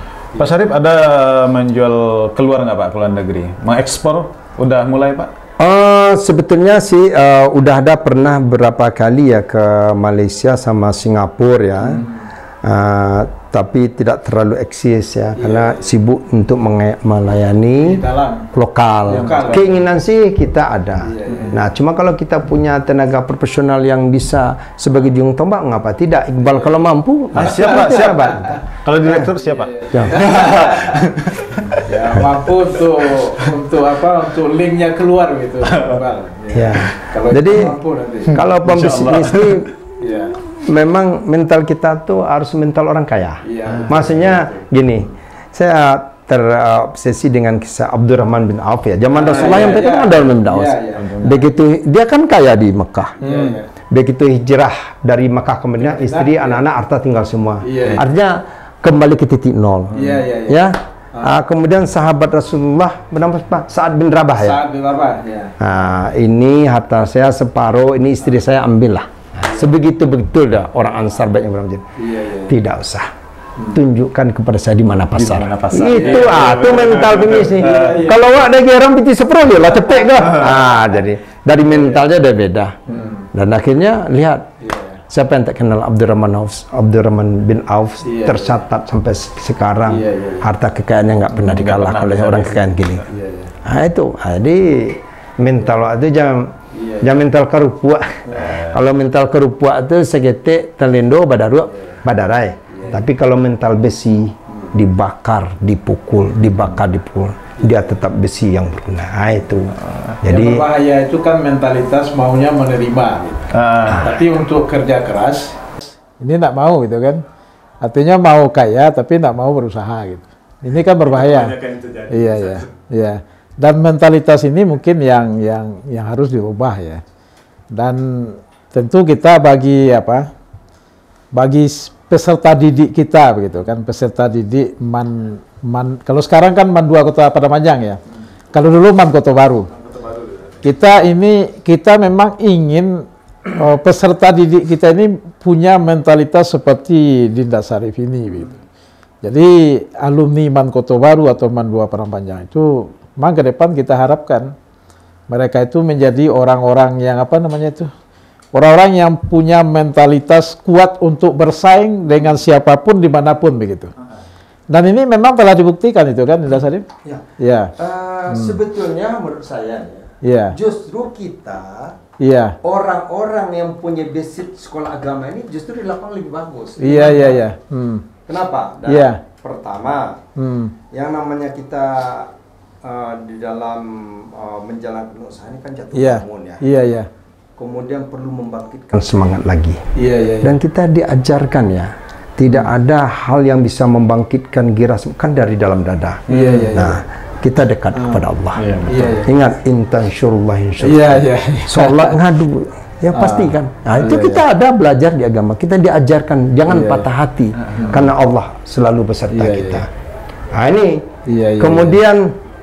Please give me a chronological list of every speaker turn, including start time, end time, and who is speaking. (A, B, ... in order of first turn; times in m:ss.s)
0:00.4-0:05.3 A
0:05.6-0:12.0 B
0:12.6-0:29.3 B
0:15.4-0:15.9 C
0:17.8-0:18.5 C
0:19.1-0:19.8 C
0:21.0-0:21.6 C
0:27.3-0:31.9 A
0:29.5-0:31.1 C
0:29.9-0:30.2 B
0:31.8-0:38.4 C
0:35.7-0:36.0 A
0:36.5-0:37.8 B
0:38.3-0:39.7 B
0:38.3-0:39.7 A
0:40.0-0:40.4 C
0:40.5-0:53.3 B
0:43.4-0:44.7 C
0:49.2-0:51.2 C
0:51.0-0:51.4 A
0:53.2-0:53.7 C
0:53.9-1:04.6 B
0:55.8-0:56.6 C
0:57.6-0:58.0 C
0:59.9-1:01.3 C
1:04.4-1:05.6 C
1:05.6-1:13.1 B
1:12.0-1:12.6 C
1:13.7-1:24.5 B
1:15.2-1:18.1 A
1:15.9-1:16.6 C
1:17.6-1:18.2 C
1:20.3-1:20.6 A
1:22.9-1:23.3 C
1:24.6-1:25.0 C
1:25.1-1:33.0 B
1:28.0-1:28.6 C
1:29.9-1:30.5 C
1:31.3-1:32.9 A
1:33.1-1:33.5 C
1:33.6-1:50.6 B
1:36.7-1:37.1 C
1:38.4-1:38.7 A
1:42.7-1:43.0 C
1:50.2-1:57.2 C
1:53.5-1:54.2 A
1:57.8-2:01.6 C
2:01.1-2:02.7 A
2:02.1-2:07.0 C
2:07.7-2:10.3 C
2:11.3-2:18.0 C
2:18.5-2:19.7 C
2:19.9-2:20.3 A
2:20.6-2:28.6 C
2:29.2-2:34.6 C
2:35.3-2:37.9 C
2:38.5-2:43.9 C
2:44.7-2:46.9 C
2:47.4-2:47.8 C
2:47.8-2:52.0 B
2:48.3-2:48.6 C
2:50.2-2:50.6 C
2:52.2-2:52.6 C
2:52.6-2:57.5 B
2:56.8-2:58.1 C
2:58.3-3:00.2 B
2:58.9-2:59.2 C
3:00.4-3:00.7 C
3:00.9-3:02.3 B
3:02.8-3:06.6 B
3:05.9-3:07.1 C
3:07.6-3:09.8 B
3:10.0-3:10.6 C
3:10.4-3:29.9 B
3:16.3-3:17.0 C
3:16.3-3:16.7 A
3:18.8-3:19.3 C
3:20.8-3:22.2 C
3:23.1-3:24.4 C
3:26.7-3:27.1 C
3:27.8-3:28.1 C
3:29.3-3:29.8 C
3:30.5-3:31.1 B
3:31.3-3:32.0 C
3:31.6-3:32.3 B